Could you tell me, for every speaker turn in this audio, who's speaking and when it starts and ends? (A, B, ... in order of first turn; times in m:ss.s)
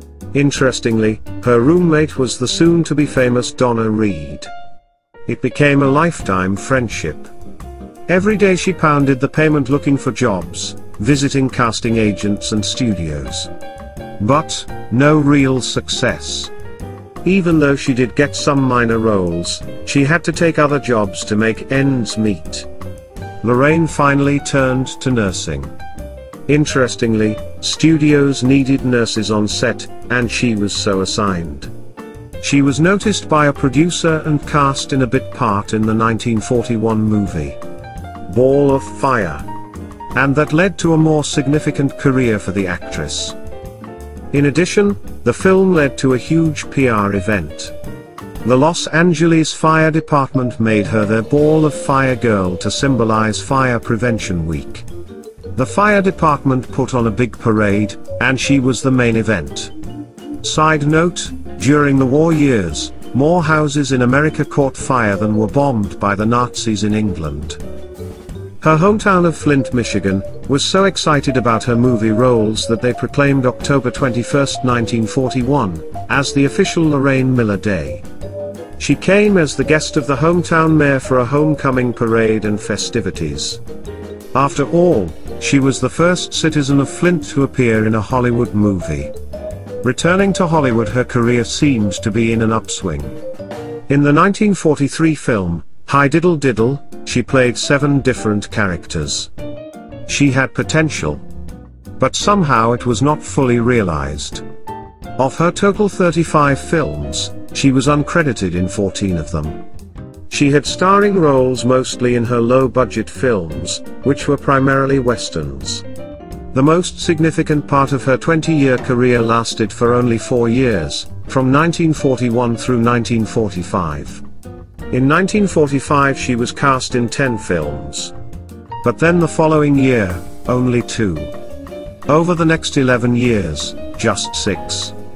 0:00.3-0:04.5 A
0:05.2-0:07.3 A
0:08.1-0:13.5 A
0:14.2-0:16.5 A
0:17.2-0:22.7 A
0:23.4-0:25.7 A
0:26.4-0:31.7 A
0:32.4-0:37.6 A
0:38.3-0:39.4 A
0:40.1-0:43.4 A
0:44.3-0:47.7 A
0:48.4-0:54.8 A
0:55.5-0:59.7 A
1:00.4-1:07.6 A
1:08.6-1:18.0 A
1:18.8-1:23.6 A
1:24.3-1:29.1 A
1:29.8-1:33.2 A
1:33.9-1:39.3 A
1:40.1-1:41.2 A
1:42.0-1:44.4 A
1:45.2-1:49.6 A
1:50.3-1:55.8 A
1:56.5-2:04.2 A
2:04.9-2:08.1 A
2:08.8-2:11.4 A
2:12.0-2:15.0 A